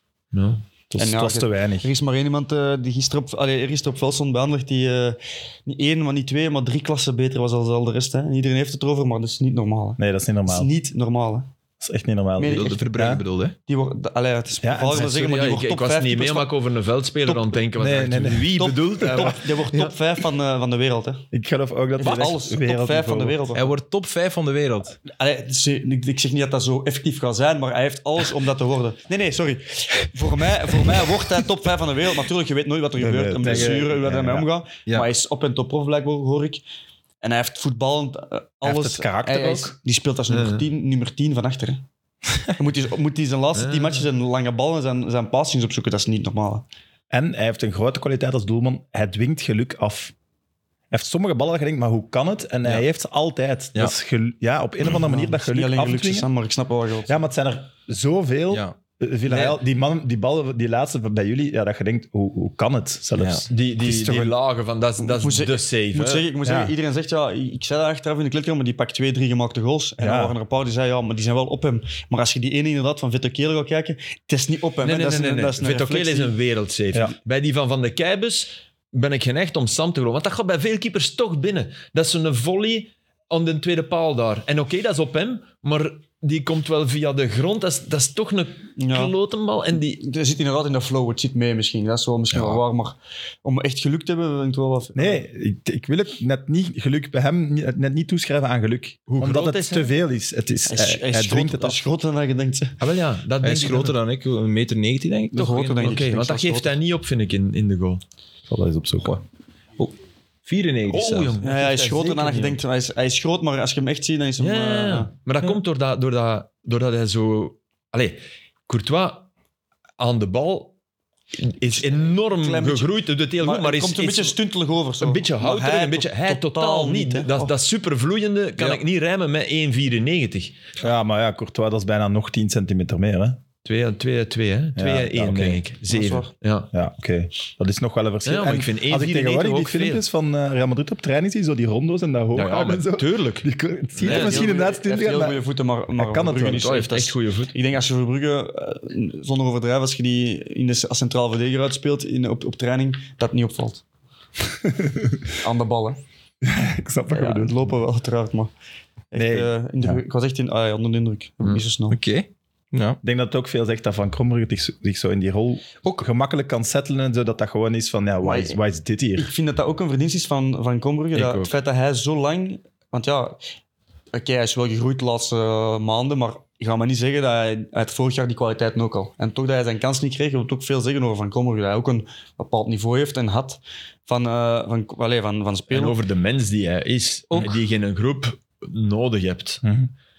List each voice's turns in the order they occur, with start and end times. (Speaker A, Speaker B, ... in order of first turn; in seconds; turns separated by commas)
Speaker A: 0.3-0.6, Speaker B: 0.9-1.9, Speaker C: 0.9-11.5, Speaker B: 10.0-10.7, Speaker B: 11.8-13.2, Speaker C: 12.4-12.9, Speaker D: 12.4-13.6, Speaker C: 13.7-16.5, Speaker B: 14.6-15.0, Speaker A: 14.9-19.9, Speaker C: 17.2-17.6, Speaker B: 17.8-18.6, Speaker C: 18.5-21.2, Speaker B: 21.3-23.4, Speaker C: 22.0-23.7, Speaker D: 23.5-25.0, Speaker C: 25.1-36.6, Speaker B: 33.0-34.5, Speaker D: 33.4-33.8, Speaker C: 37.2-41.8, Speaker B: 38.6-39.8, Speaker A: 40.3-40.6, Speaker C: 42.5-46.6, Speaker A: 43.5-44.1, Speaker B: 47.1-50.1, Speaker B: 50.9-56.3, Speaker C: 55.0-57.2, Speaker B: 57.1-64.4, Speaker A: 59.3-59.6, Speaker D: 63.2-63.4, Speaker A: 63.5-66.3, Speaker C: 65.0-76.3, Speaker B: 66.4-66.7, Speaker B: 70.0-70.3, Speaker A: 74.8-90.0, Speaker C: 88.8-89.1, Speaker C: 90.0-95.2, Speaker B: 94.9-101.8, Speaker A: 99.1-99.9, Speaker C: 100.7-102.8, Speaker A: 102.8-104.0, Speaker D: 103.4-105.9, Speaker C: 105.3-106.7, Speaker A: 105.4-108.0, Speaker B: 108.5-109.2, Speaker D: 110.5-111.3, Speaker A: 110.9-112.6, Speaker C: 111.4-115.1, Speaker A: 114.4-119.3, Speaker A: 120.0-120.7, Speaker A: 121.3-124.4, Speaker C: 121.8-127.5, Speaker A: 125.0-130.6, Speaker B: 130.8-133.4, Speaker A: 133.6-136.7, Speaker B: 134.8-135.6, Speaker C: 135.9-136.3, Speaker B: 136.7-145.4, Speaker A: 138.2-140.0, Speaker A: 142.3-144.6, Speaker C: 144.0-153.8, Speaker B: 145.9-146.8, Speaker A: 146.4-147.5, Speaker B: 154.6-155.3, Speaker C: 155.4-156.0, Speaker B: 156.4-157.7, Speaker C: 157.1-158.5, Speaker C: 159.1-162.0, Speaker B: 159.1-160.0, Speaker D: 161.9-163.0, Speaker B: 163.0-169.3, Speaker C: 168.2-168.6, Speaker C: 169.2-173.4, Speaker A: 171.1-171.5, Speaker C: 174.1-186.0, Speaker A: 185.7-189.6, Speaker B: 189.6-189.9